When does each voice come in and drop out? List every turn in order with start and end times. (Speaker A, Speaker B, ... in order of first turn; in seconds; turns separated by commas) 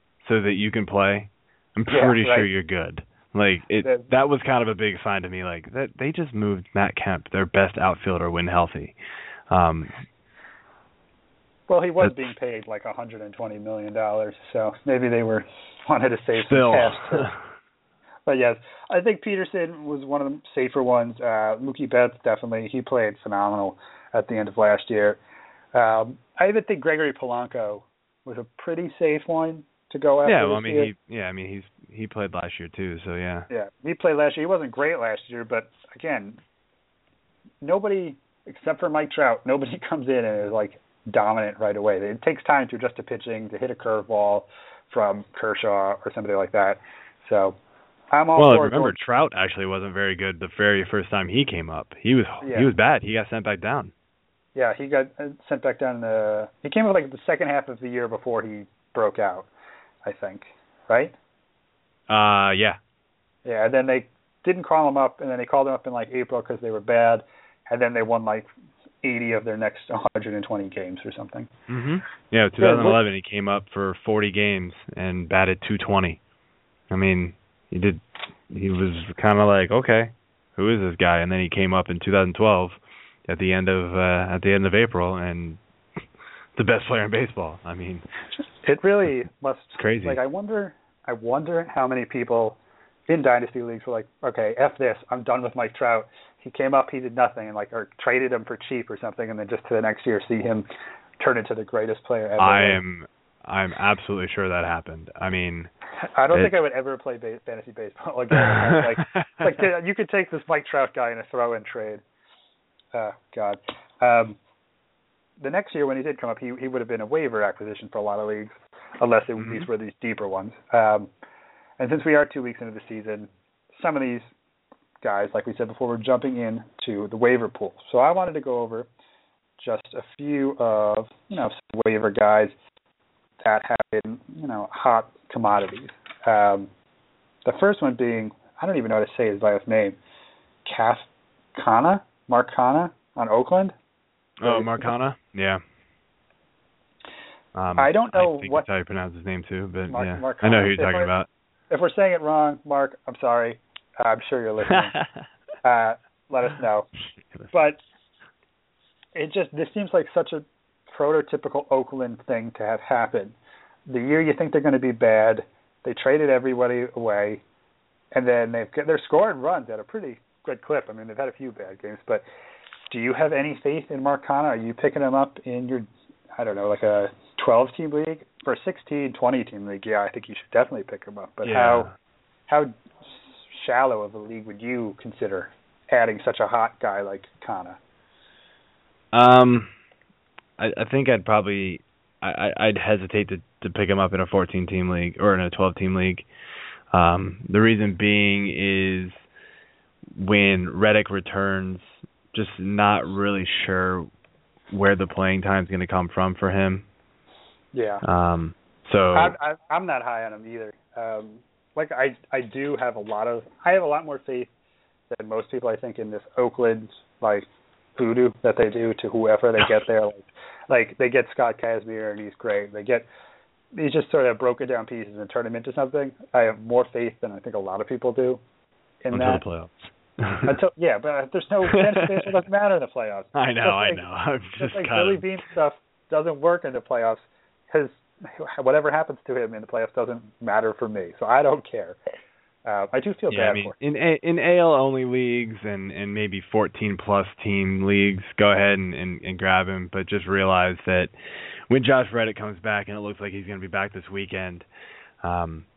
Speaker A: 0.2-8.9, Speaker B: 1.9-2.5, Speaker B: 3.8-4.1, Speaker A: 9.5-9.9, Speaker B: 11.7-17.3, Speaker A: 16.5-17.4, Speaker B: 18.3-25.2, Speaker B: 25.7-30.9, Speaker A: 30.2-33.5, Speaker B: 33.5-36.4, Speaker B: 37.6-47.6, Speaker B: 48.1-49.0, Speaker A: 48.4-53.9, Speaker B: 52.4-52.7, Speaker B: 54.5-59.5, Speaker B: 60.0-61.1, Speaker A: 62.1-62.8, Speaker B: 63.4-68.5, Speaker B: 69.0-71.5, Speaker A: 71.7-76.2, Speaker B: 72.6-73.0, Speaker A: 76.9-85.6, Speaker A: 86.5-88.0, Speaker B: 88.6-100.7, Speaker A: 89.8-90.2, Speaker B: 101.2-102.8, Speaker A: 102.4-105.7, Speaker B: 106.1-112.0, Speaker A: 108.3-109.5, Speaker B: 112.9-114.4, Speaker B: 115.4-121.1, Speaker A: 119.4-119.7, Speaker B: 121.8-124.3, Speaker B: 125.0-128.9, Speaker B: 129.6-132.5, Speaker B: 133.4-136.7, Speaker B: 137.4-140.0, Speaker B: 140.6-143.7, Speaker A: 144.4-145.6, Speaker B: 144.4-144.9, Speaker A: 147.5-151.3, Speaker B: 147.8-148.7, Speaker B: 149.9-151.1, Speaker B: 151.7-155.0, Speaker B: 155.6-156.9, Speaker B: 157.5-157.8, Speaker B: 159.1-163.3, Speaker B: 163.9-167.4, Speaker B: 168.1-172.2, Speaker B: 172.9-181.9, Speaker A: 181.4-181.9, Speaker B: 182.5-187.8, Speaker A: 189.1-189.7, Speaker A: 190.6-196.3, Speaker A: 196.9-199.2, Speaker A: 200.1-204.1, Speaker A: 204.7-206.8, Speaker B: 207.7-208.0, Speaker A: 208.0-209.4, Speaker B: 209.1-214.5, Speaker B: 215.1-223.1, Speaker B: 223.7-228.4, Speaker B: 229.0-229.4, Speaker A: 229.1-230.6, Speaker B: 230.4-234.0, Speaker A: 231.7-232.3, Speaker A: 233.3-235.2, Speaker B: 234.6-242.0, Speaker B: 242.7-243.7, Speaker A: 243.3-251.1, Speaker A: 251.7-254.7, Speaker A: 255.2-255.7